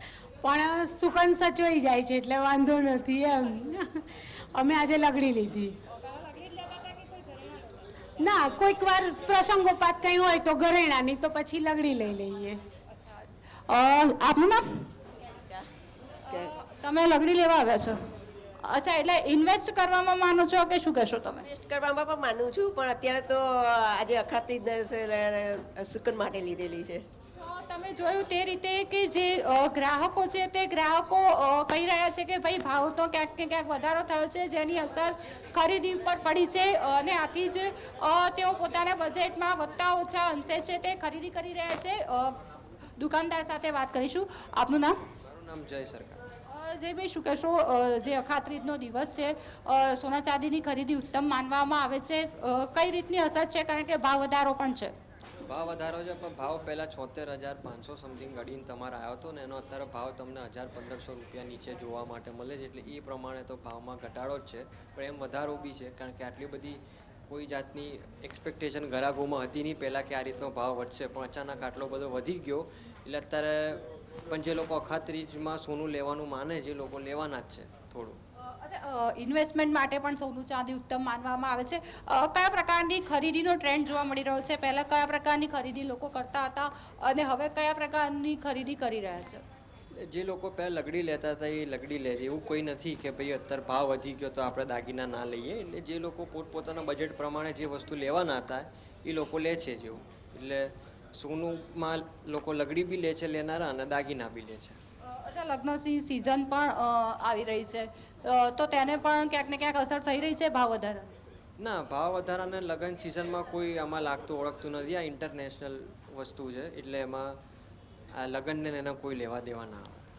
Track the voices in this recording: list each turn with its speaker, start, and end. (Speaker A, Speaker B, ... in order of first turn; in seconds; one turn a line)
Speaker A: 0.4-5.8
Speaker B: 5.9-7.9
Speaker A: 8.2-12.6
Speaker B: 12.9-14.9
Speaker B: 16.3-18.0
Speaker B: 18.6-21.5
Speaker C: 21.5-23.4
Speaker C: 23.9-27.0
Speaker B: 27.4-42.4
Speaker B: 43.0-45.0
Speaker D: 45.3-46.2
Speaker B: 46.5-54.9
Speaker D: 55.4-78.2
Speaker B: 78.4-89.4
Speaker D: 89.9-104.8
Speaker B: 105.0-111.1
Speaker D: 111.6-117.4
Speaker D: 118.2-120.0